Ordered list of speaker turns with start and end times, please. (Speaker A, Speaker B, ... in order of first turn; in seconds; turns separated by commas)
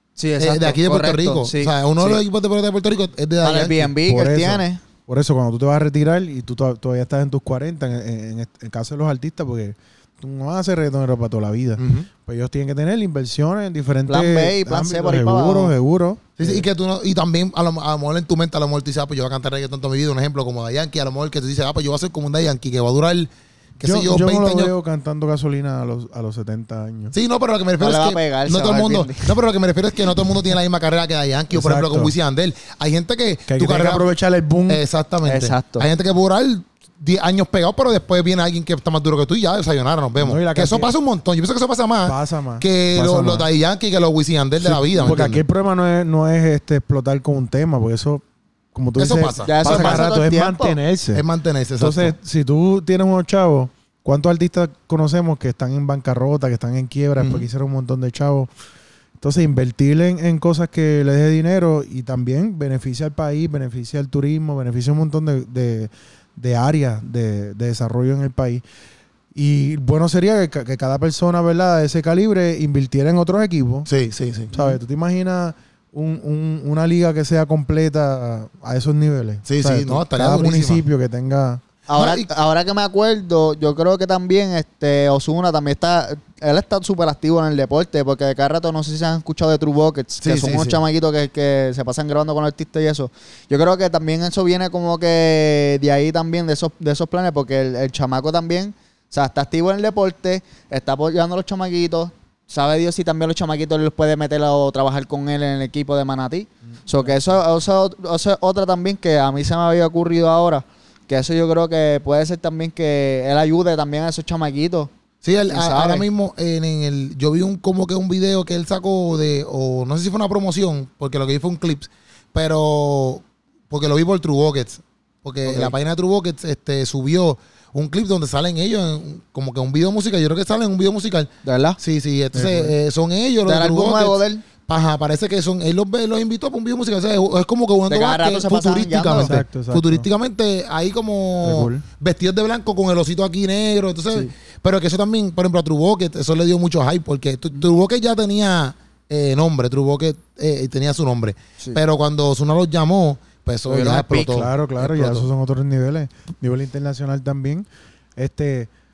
Speaker A: 0.2-2.2, Speaker B: 0.4-3.9, Speaker A: 3.4-4.8, Speaker C: 4.0-16.6, Speaker B: 11.8-12.1, Speaker A: 14.1-15.7, Speaker B: 16.4-24.7, Speaker C: 23.8-27.1, Speaker B: 27.1-34.1, Speaker A: 27.8-29.4, Speaker C: 31.5-32.1, Speaker C: 33.5-34.8, Speaker B: 34.7-45.4, Speaker A: 35.2-35.9, Speaker C: 40.2-40.9, Speaker C: 42.0-43.5, Speaker C: 44.6-51.2, Speaker B: 49.0-50.0, Speaker A: 49.4-50.8, Speaker B: 51.1-52.1, Speaker C: 51.8-58.5, Speaker B: 57.2-57.5, Speaker C: 59.2-68.6, Speaker C: 69.3-73.9, Speaker B: 73.8-74.5, Speaker C: 74.5-81.6, Speaker B: 79.5-80.8, Speaker A: 81.9-114.9, Speaker B: 82.0-82.3, Speaker B: 90.2-90.8, Speaker C: 107.0-107.3, Speaker B: 115.2-155.3, Speaker A: 115.5-116.0, Speaker A: 131.4-131.8, Speaker C: 132.3-132.7, Speaker A: 133.4-134.4, Speaker A: 137.9-139.4, Speaker C: 139.1-140.1, Speaker C: 141.4-141.8, Speaker A: 153.7-154.4, Speaker C: 154.2-158.7